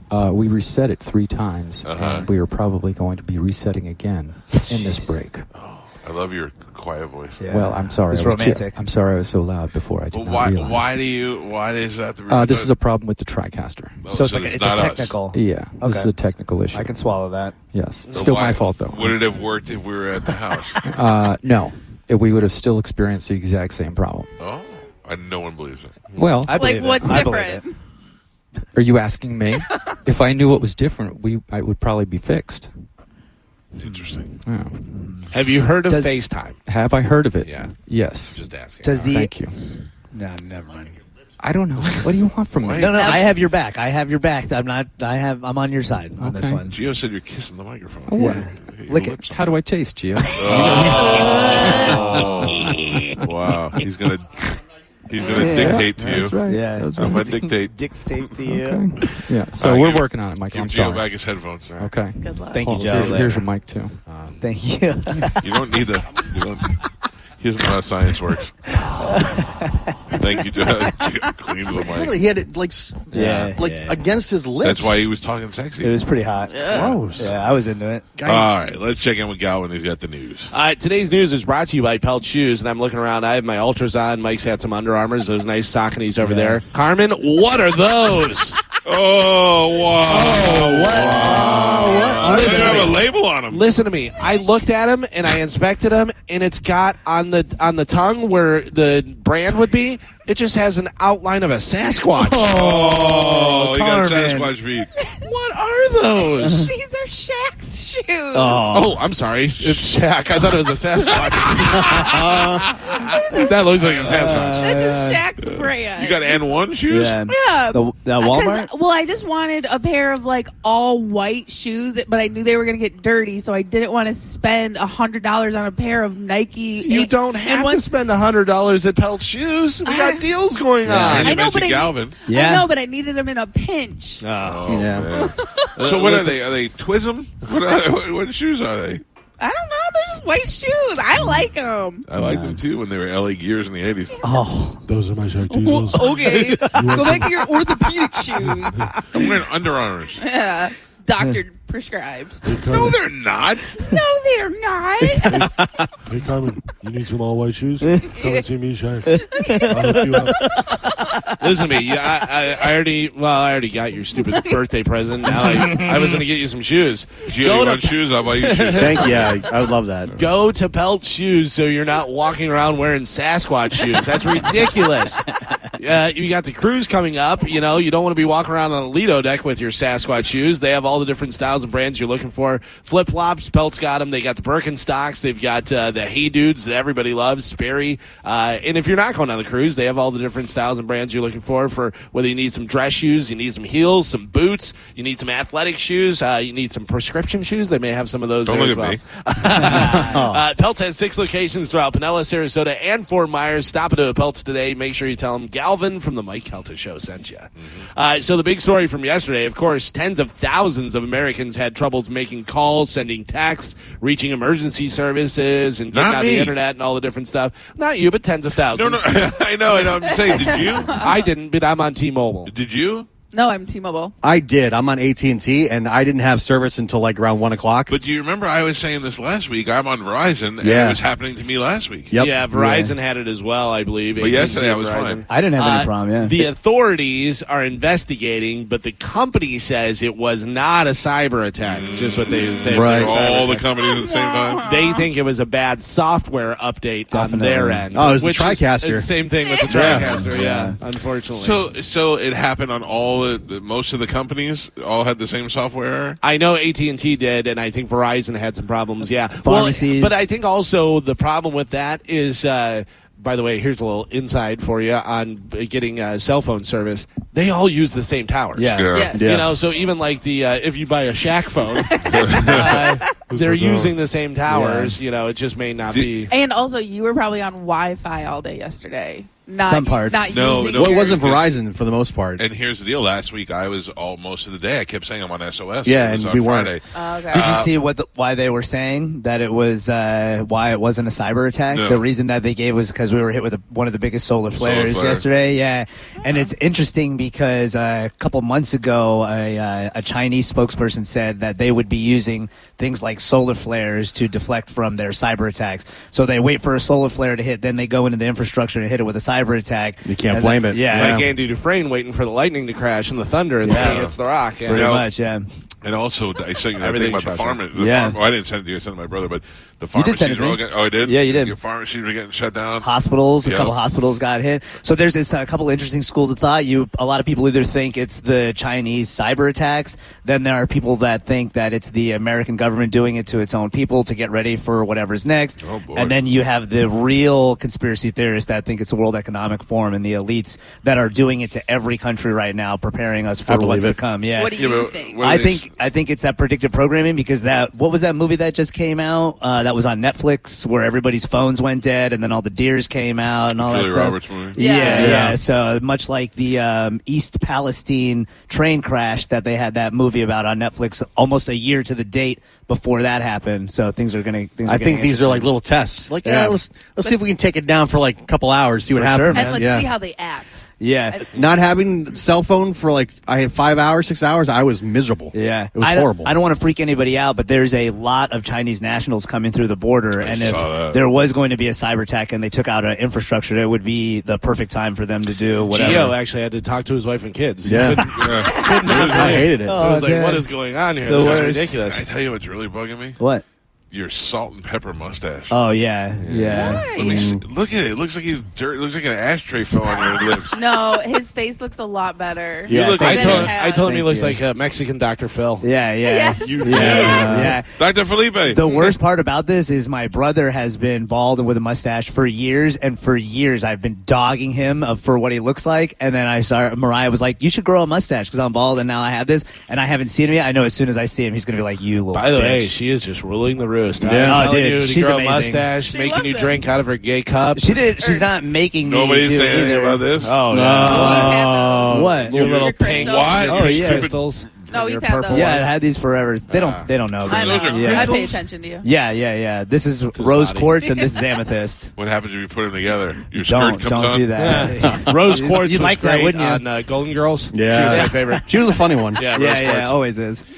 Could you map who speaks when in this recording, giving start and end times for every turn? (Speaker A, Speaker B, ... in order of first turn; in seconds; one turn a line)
Speaker A: 0.1-5.5
Speaker B: 1.8-2.3
Speaker B: 5.5-7.5
Speaker C: 7.4-8.8
Speaker A: 7.5-10.9
Speaker B: 10.1-12.7
Speaker A: 12.3-14.1
Speaker B: 14.0-15.2
Speaker C: 14.1-16.1
Speaker A: 15.3-16.9
Speaker C: 16.7-17.6
Speaker A: 17.7-19.3
Speaker D: 18.1-18.4
Speaker B: 18.1-21.0
Speaker A: 20.8-24.3
Speaker B: 24.4-26.0
Speaker A: 26.1-27.3
Speaker C: 26.4-27.6
Speaker E: 26.5-27.8
Speaker A: 28.7-32.7
Speaker B: 33.8-34.3
Speaker A: 34.4-34.8
Speaker C: 34.9-35.3
Speaker D: 35.3-36.6
Speaker A: 36.7-39.6
Speaker D: 37.4-37.7
Speaker D: 38.3-39.1
Speaker C: 38.8-39.4
Speaker C: 40.1-41.0
Speaker A: 41.4-43.2
Speaker B: 42.5-43.0
Speaker C: 42.7-46.8
Speaker E: 42.9-43.3
Speaker A: 46.2-46.6
Speaker B: 46.7-49.4
Speaker A: 48.1-48.5
Speaker C: 48.1-49.2
Speaker A: 49.2-53.2
Speaker B: 50.3-56.4
Speaker C: 50.4-53.1
Speaker A: 55.2-57.5
Speaker C: 55.3-55.9
Speaker C: 56.5-58.8
Speaker B: 57.0-58.4
Speaker A: 58.5-61.1
Speaker B: 59.0-61.8
Speaker A: 61.8-64.0
Speaker E: 62.2-63.1
Speaker C: 62.5-63.5
Speaker D: 64.1-64.4
Speaker C: 64.4-65.6
Speaker B: 65.4-66.8
Speaker B: 67.4-69.4
Speaker C: 68.7-70.2
Speaker B: 70.1-72.2
Speaker F: 71.9-75.1
Speaker C: 73.1-74.0
Speaker B: 74.6-76.1
Speaker C: 75.8-78.0
Speaker E: 76.5-77.0
Speaker B: 76.7-77.4
Speaker F: 76.7-77.2
Speaker F: 78.2-78.5
Speaker B: 78.2-80.5
Speaker D: 80.5-88.6
Speaker C: 86.2-86.6
Speaker B: 88.8-93.6
Speaker C: 90.1-92.9
Speaker D: 92.2-92.9
Speaker D: 93.5-102.5
Speaker C: 102.1-104.5
Speaker B: 102.4-104.9
Speaker E: 105.0-105.2
Speaker D: 105.2-106.7
Speaker E: 106.4-108.6
Speaker C: 108.3-109.0
Speaker D: 108.7-112.2
Speaker B: 109.6-109.8
Speaker E: 111.2-113.7
Speaker F: 112.0-112.6
Speaker D: 113.1-114.8
Speaker C: 114.0-115.2
Speaker E: 114.6-116.4
Speaker B: 115.4-117.2
Speaker C: 116.9-118.7
Speaker E: 117.3-127.8
Speaker D: 126.8-131.4
Speaker E: 129.8-130.2
Speaker C: 130.8-131.3
Speaker B: 131.0-132.2
Speaker E: 131.2-134.3
Speaker C: 132.3-132.7
Speaker D: 134.2-134.9
Speaker B: 134.4-139.0
Speaker F: 134.7-135.1
Speaker E: 135.1-135.7
Speaker D: 135.8-136.4
Speaker E: 139.4-142.0
Speaker B: 142.1-144.2
Speaker C: 142.2-142.6
Speaker C: 144.2-144.8
Speaker G: 144.8-147.5
Speaker E: 145.5-148.9
Speaker C: 146.1-147.1
Speaker B: 149.1-150.2
Speaker E: 150.2-152.8
Speaker G: 152.4-153.0
Speaker B: 152.7-153.8
Speaker E: 153.8-155.3
Speaker G: 155.2-160.5
Speaker C: 157.8-158.1
Speaker E: 158.1-158.4
Speaker C: 159.1-161.4
Speaker E: 159.2-160.0
Speaker D: 161.4-169.2
Speaker C: 165.3-166.1
Speaker B: 167.2-169.4
Speaker F: 168.8-170.1
Speaker D: 170.2-219.4
Speaker B: 198.4-199.0
Speaker C: 199.6-200.0
Speaker F: 200.0-200.4
Speaker B: 207.6-207.8
Speaker B: 215.9-216.6
Speaker B: 218.7-221.0
Speaker E: 219.8-221.3
Speaker D: 220.9-222.5
Speaker B: 222.4-223.1
Speaker E: 223.3-224.1
Speaker F: 224.2-227.9
Speaker B: 227.9-232.1
Speaker F: 230.6-231.0
Speaker D: 232.1-243.7
Speaker C: 232.5-232.9
Speaker B: 234.2-235.2
Speaker C: 235.3-236.3
Speaker B: 241.6-244.7
Speaker F: 242.7-243.1
Speaker E: 243.8-244.8
Speaker D: 244.6-251.6
Speaker C: 247.1-247.8
Speaker F: 247.9-249.1
Speaker E: 249.4-249.7
Speaker F: 249.7-250.0
Speaker C: 249.8-250.8
Speaker B: 251.3-256.2
Speaker D: 256.2-276.3
Speaker C: 259.4-260.2
Speaker C: 268.6-268.9
Speaker B: 268.7-269.2
Speaker E: 268.9-269.2
Speaker F: 269.1-269.5
Speaker E: 271.8-273.1
Speaker B: 272.2-272.8
Speaker C: 272.5-273.0
Speaker G: 273.3-274.0
Speaker C: 274.5-275.0
Speaker E: 276.3-281.3
Speaker C: 279.6-280.4
Speaker B: 280.3-281.6
Speaker F: 280.6-282.4
Speaker B: 282.4-287.7
Speaker F: 285.8-286.8
Speaker E: 286.9-287.5
Speaker C: 287.3-311.2
Speaker B: 291.7-292.0
Speaker B: 294.6-295.2
Speaker E: 296.2-296.5
Speaker F: 310.0-311.3
Speaker D: 310.9-314.9
Speaker C: 313.6-314.0
Speaker B: 313.6-314.1
Speaker B: 314.7-315.1
Speaker C: 314.7-315.5
Speaker B: 315.8-322.9
Speaker D: 316.8-317.6
Speaker C: 317.7-318.2
Speaker C: 319.9-321.6
Speaker C: 322.8-344.6
Speaker B: 323.4-323.7
Speaker B: 335.6-336.2
Speaker F: 343.5-344.0
Speaker E: 344.3-345.3
Speaker B: 344.5-345.7
Speaker C: 345.2-365.5
Speaker B: 353.6-354.6
Speaker E: 354.6-355.2
Speaker F: 354.9-355.4
Speaker F: 364.6-369.9
Speaker C: 366.2-366.6
Speaker C: 368.9-369.8
Speaker E: 369.3-371.5
Speaker C: 370.8-371.2
Speaker F: 371.3-376.3
Speaker C: 375.3-386.1
Speaker B: 380.1-381.0
Speaker D: 385.7-392.0
Speaker F: 387.6-388.1
Speaker B: 388.1-389.4
Speaker E: 388.4-389.3
Speaker F: 389.2-389.8
Speaker C: 389.6-390.4
Speaker C: 391.1-391.7
Speaker B: 391.1-393.2
Speaker C: 393.2-393.4
Speaker B: 393.9-395.6
Speaker C: 395.5-396.9
Speaker D: 396.2-396.7
Speaker B: 396.4-400.9
Speaker E: 396.5-397.3
Speaker F: 397.0-397.4
Speaker E: 399.9-403.9
Speaker B: 402.7-403.5
Speaker C: 402.7-404.4
Speaker D: 403.0-405.6
Speaker C: 405.6-407.7
Speaker E: 406.0-407.3
Speaker B: 406.4-408.8
Speaker F: 406.8-407.6
Speaker C: 408.4-422.7
Speaker D: 422.1-427.8
Speaker F: 424.0-424.5
Speaker C: 424.2-425.7
Speaker E: 425.8-426.6
Speaker C: 427.5-432.5
Speaker E: 428.0-428.3
Speaker B: 428.8-430.4
Speaker D: 430.2-431.4
Speaker F: 430.5-432.2
Speaker E: 430.8-433.6
Speaker D: 431.9-435.7
Speaker B: 432.2-434.7
Speaker C: 433.4-434.1
Speaker E: 434.7-435.6
Speaker C: 435.3-438.2
Speaker D: 436.5-436.9
Speaker B: 437.2-438.4
Speaker E: 437.3-438.9
Speaker C: 438.8-441.9
Speaker D: 440.1-440.7
Speaker E: 440.8-441.1
Speaker B: 442.0-444.7
Speaker C: 443.4-446.6
Speaker D: 444.4-448.6
Speaker F: 444.8-445.1
Speaker F: 447.5-449.2
Speaker C: 447.8-448.6
Speaker D: 449.1-449.9
Speaker C: 449.2-450.4